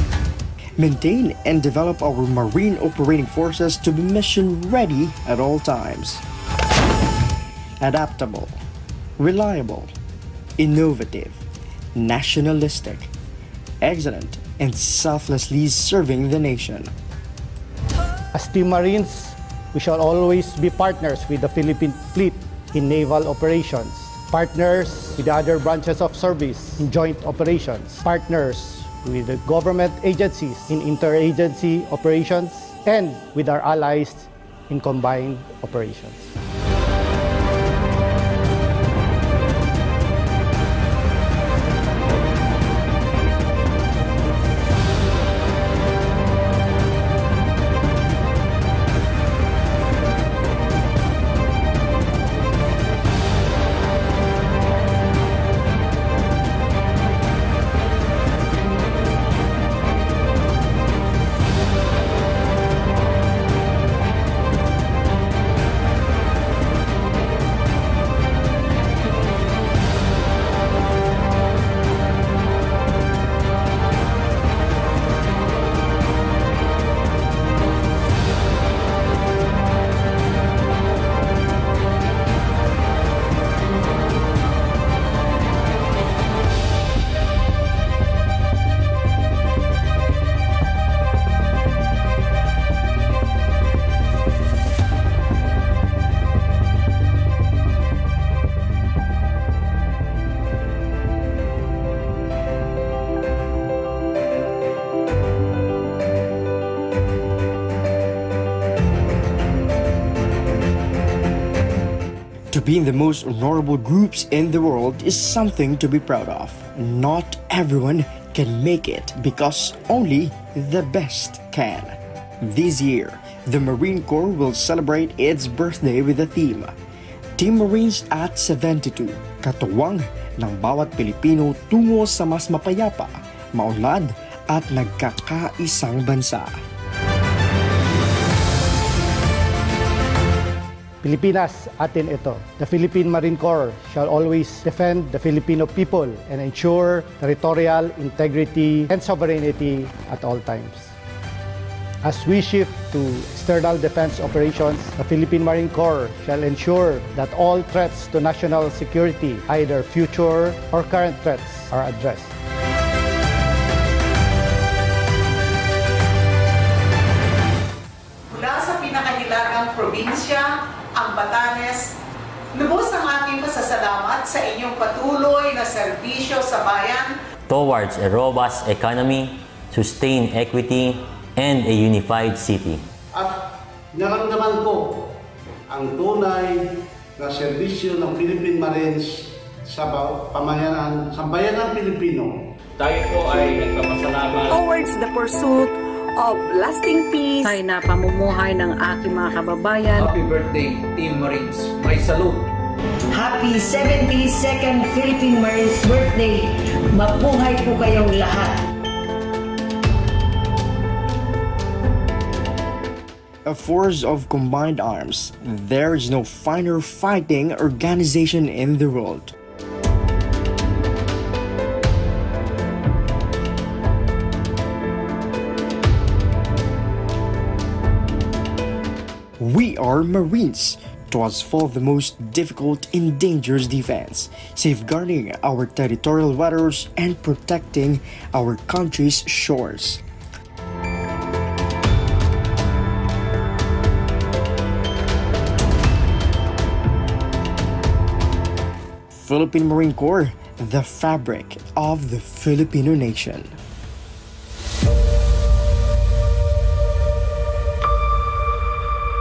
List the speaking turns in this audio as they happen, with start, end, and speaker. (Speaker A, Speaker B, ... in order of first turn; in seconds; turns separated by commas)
Speaker A: 0.8-6.2, Speaker A: 7.8-8.6, Speaker A: 9.2-9.9, Speaker A: 10.6-11.4, Speaker A: 11.9-13.1, Speaker A: 13.8-16.9, Speaker B: 18.3-36.3, Speaker A: 112.5-126.8, Speaker A: 127.4-136.6, Speaker B: 141.0-150.9, Speaker B: 152.0-162.3, Speaker C: 168.3-171.9, Speaker C: 172.5-177.2, Speaker D: 177.5-182.8, Speaker E: 183.1-183.4, Speaker E: 183.9-185.0, Speaker E: 185.7-192.4, Speaker F: 192.8-194.4, Speaker G: 194.3-197.5, Speaker H: 197.4-200.2, Speaker F: 199.9-202.5, Speaker G: 200.7-202.3, Speaker I: 203.1-208.6, Speaker A: 213.4-219.3, Speaker A: 229.4-240.0, Speaker A: 249.1-253.6